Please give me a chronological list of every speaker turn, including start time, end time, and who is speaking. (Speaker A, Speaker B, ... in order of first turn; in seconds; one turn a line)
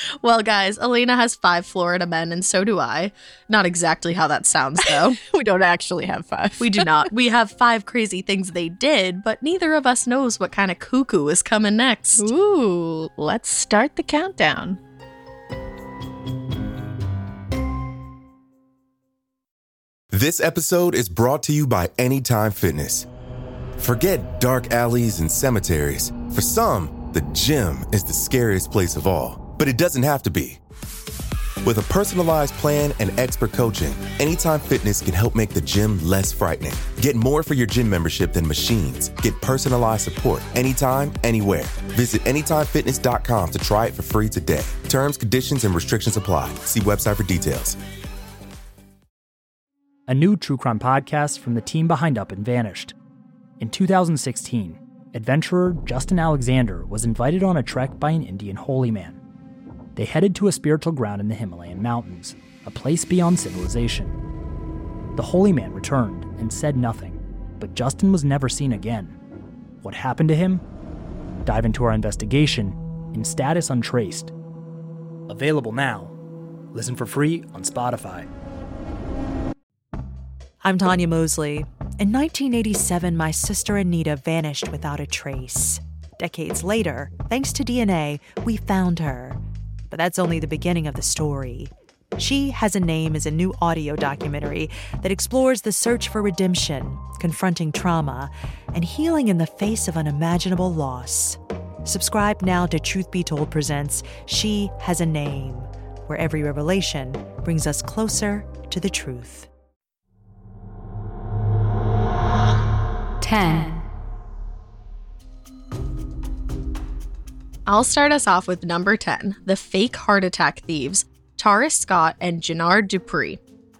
Speaker A: 0.2-5.2
Speaker B: 4.8-7.1
Speaker A: 6.6-12.3
Speaker B: 12.2-14.8
Speaker C: 20.1-23.1
Speaker C: 23.8-30.6
Speaker C: 31.6-47.8
Speaker D: 50.1-52.9
Speaker D: 53.6-59.2
Speaker D: 60.0-64.1
Speaker D: 65.2-69.2
Speaker D: 69.8-70.6
Speaker D: 71.4-74.3
Speaker D: 75.3-76.2
Speaker D: 76.7-78.3
Speaker E: 80.6-109.5
Speaker B: 113.2-113.7
Speaker A: 117.7-123.4